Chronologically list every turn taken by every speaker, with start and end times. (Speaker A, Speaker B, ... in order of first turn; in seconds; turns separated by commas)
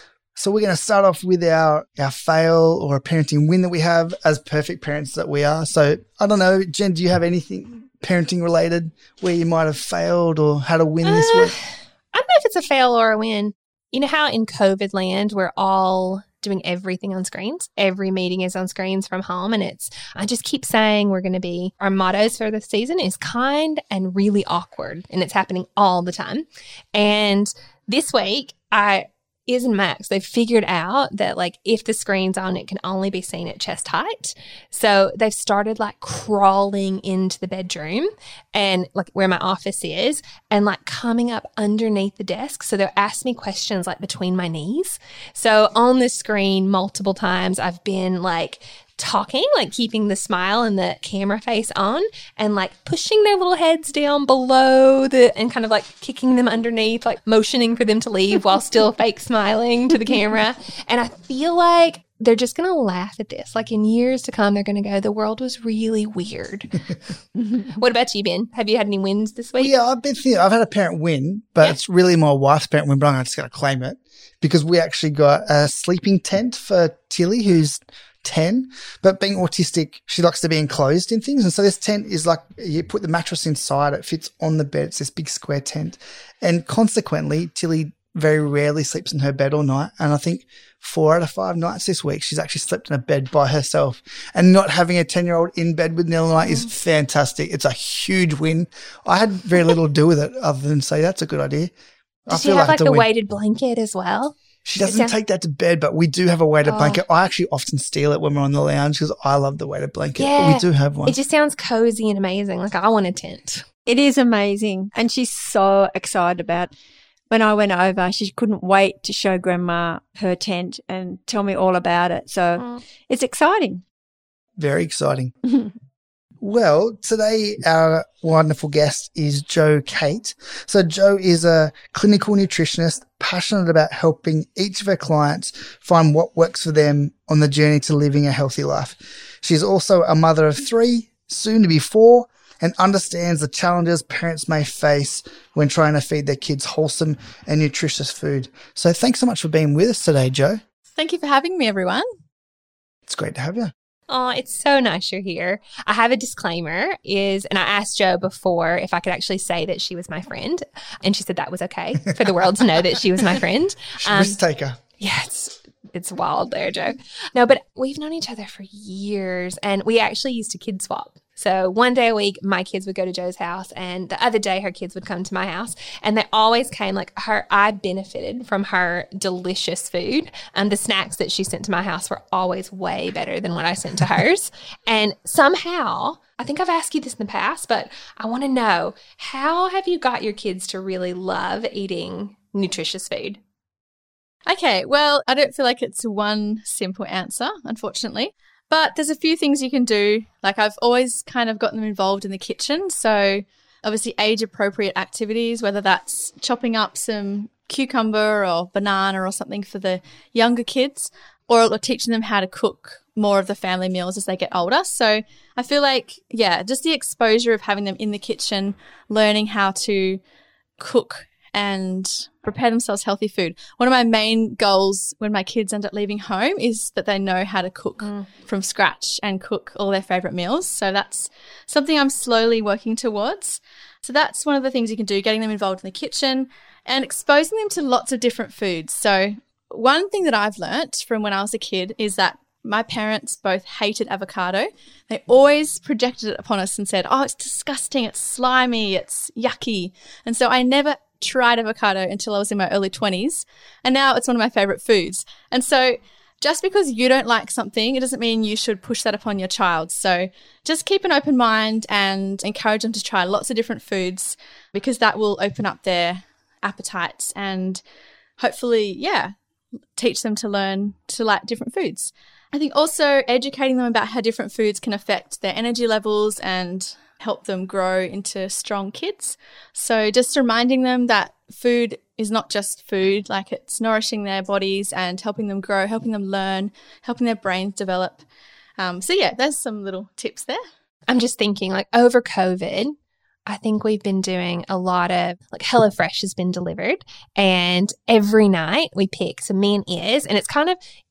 Speaker A: 0.4-11.5, Speaker B: 11.0-66.8, Speaker B: 67.6-69.7, Speaker A: 69.6-101.7, Speaker A: 102.3-103.1, Speaker B: 102.3-105.1, Speaker A: 104.6-111.2, Speaker B: 106.7-107.0, Speaker B: 110.2-113.7, Speaker C: 113.9-116.7, Speaker C: 117.3-123.8, Speaker A: 124.6-125.3, Speaker A: 126.4-150.6, Speaker D: 150.9-152.1, Speaker A: 153.1-153.7, Speaker B: 154.1-164.4, Speaker A: 164.0-164.8, Speaker B: 165.0-193.4, Speaker D: 194.5-220.2, Speaker D: 220.8-267.8, Speaker D: 268.4-269.4, Speaker D: 270.0-288.2, Speaker D: 288.8-290.6, Speaker B: 291.1-293.0, Speaker B: 293.5-300.8